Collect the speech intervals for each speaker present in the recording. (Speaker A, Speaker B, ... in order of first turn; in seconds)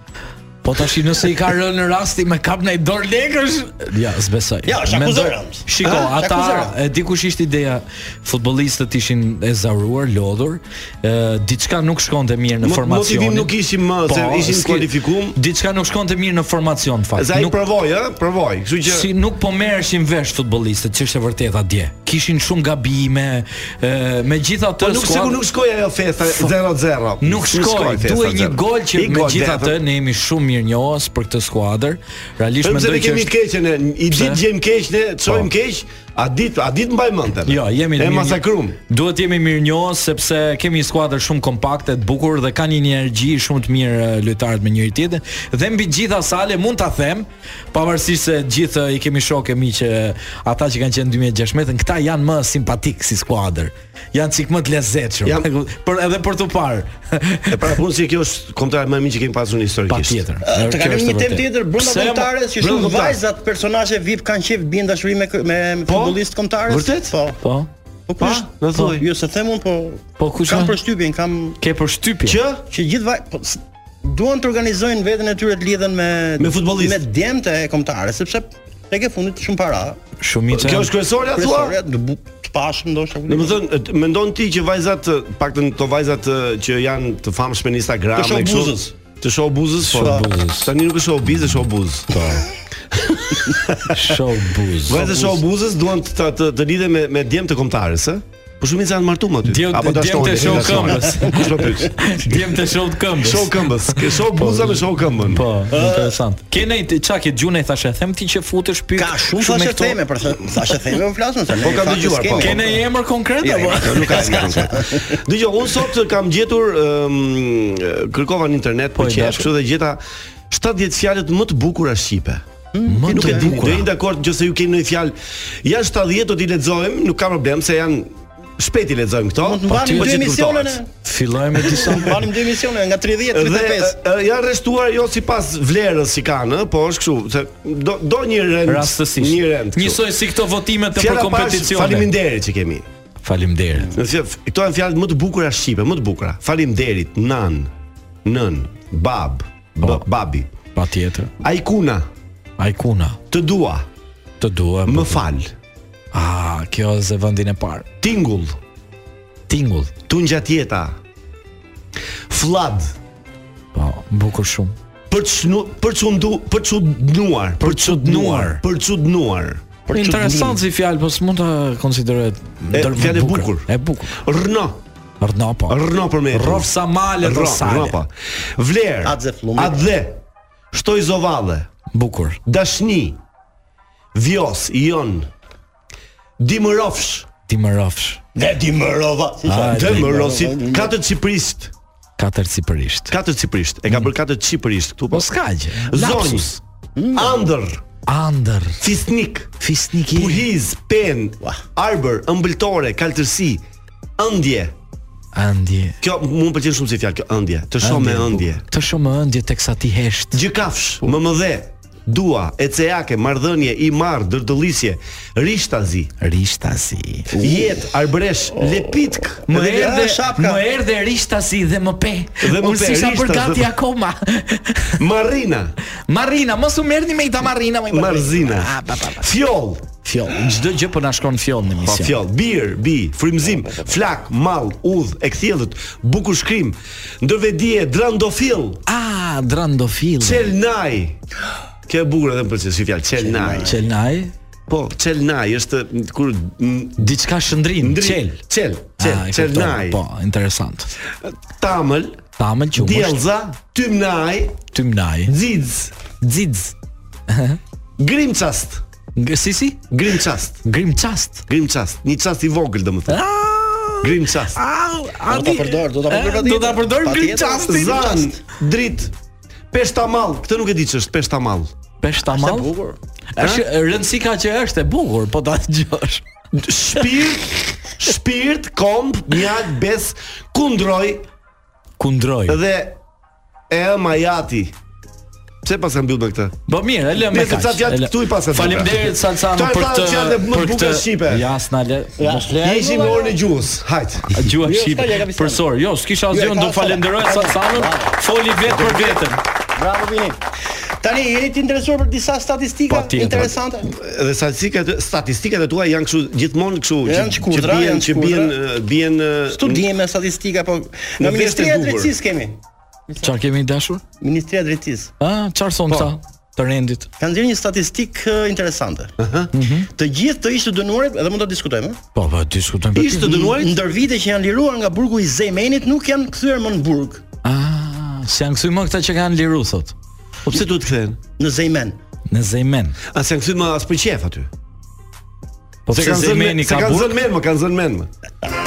Speaker A: 0.6-17.6, 18.9-25.4, 27.2-33.3, 34.1-34.4, 37.5-57.6, 59.9-62.3, 67.4-67.7, 70.2-70.8, 71.6-72.4, 80.2-80.9, 89.8-90.7, 92.1-92.5, 93.9-95.4, 99.5-109.9, 112.3-114.6, 119.0-119.5, 122.9-123.9, 129.7-130.2, 131.0-132.2, 138.7-142.1, 143.2-143.9, 149.8-150.1, 150.8-151.3, 152.6-153.2, 154.4-155.2, 156.1-157.9, 159.5-159.9, 163.7-164.8, 167.6-168.6, 169.9-174.2, 175.2-175.8, 176.3-178.0, 181.9-182.4, 187.5-188.2, 189.5-190.1, 192.2-193.1, 195.1-196.5, 198.1-198.8, 199.6-200.4, 205.3-206.0, 207.8-210.4, 216.2-217.3, 219.5-225.0, 226.1-229.3, 230.1-232.2, 238.9-240.5, 243.6-244.3, 247.0-248.4, 249.0-250.9, 252.4-253.2, 254.7-255.3, 256.2-256.7, 257.3-257.6, 259.2-259.9, 260.6-261.4, 263.1-268.2, 272.0-272.7, 273.4-276.2, 282.0-282.6, 286.7-292.5, 294.3-299.4, 302.9-303.5, 313.2-314.0, 315.2-317.1, 319.5-319.9, 322.1-323.5, 327.4-329.9, 332.3-333.0, 335.9-337.2
Speaker B: 4.7-6.8, 60.5-67.4, 68.1-71.6, 72.7-80.0, 81.3-83.6, 88.2-88.9, 90.0-90.3, 105.7-106.2, 109.0-112.7, 113.5-115.2, 122.7-123.5, 129.4-130.9, 131.7-134.0, 169.9-170.6, 179.0-179.8, 188.4-190.9, 197.0-197.5, 219.5-220.6, 243.2-243.8, 265.3-268.3, 272.3-273.0, 292.2-293.4, 294.5-295.6, 296.3-299.2, 299.8-300.4, 301.0-303.9, 307.1-308.5, 309.5-312.6, 314.2-315.1, 317.2-319.1, 319.9-322.0, 323.4-327.2, 331.4-332.0
Speaker C: 12.6-15.4, 17.2-19.1, 24.8-29.8, 32.6-38.8, 55.2-55.7, 57.5-60.2, 62.6-63.2, 65.9-67.1, 68.2-69.1, 72.2-72.7, 76.4-77.0, 80.5-81.8, 83.3-92.2, 92.9-94.0, 94.9-102.4, 103.2-105.4, 109.4-110.0, 111.6-112.8, 113.7-122.4, 123.1-130.8, 133.3-140.1, 140.9-142.9, 143.9-147.7, 148.2-150.5, 151.4-152.1, 153.3-153.9, 154.9-155.5, 158.0-158.6, 160.1-161.0, 162.3-162.9, 165.1-169.6, 172.7-174.8, 175.7-180.2, 180.7-181.7, 182.5-183.2, 184.2-185.3, 186.4-187.3, 189.7-191.7, 193.1-196.6, 197.1-197.8, 198.8-199.6, 200.1-203.6, 204.2-204.7, 206.0-208.6, 210.3-216.1, 217.3-219.4, 222.4-223.7, 225.0-225.8, 227.9-229.9, 231.8-238.8, 240.2-241.2, 241.9-243.7, 244.7-247.1, 247.8-250.0, 251.2-252.2, 252.8-254.6, 255.3-256.3, 258.0-258.8, 259.9-260.6, 261.5-263.2, 264.0-264.6, 267.7-269.1, 269.7-271.7, 273.4-273.6, 276.5-281.2, 282.5-283.0, 283.7-284.8, 285.6-286.6, 287.2-291.4, 292.6-294.4, 303.9-309.9, 311.2-312.1, 319.2-319.5, 322.9-323.8, 330.4-331.2, 333.1-334.5, 335.9-338.1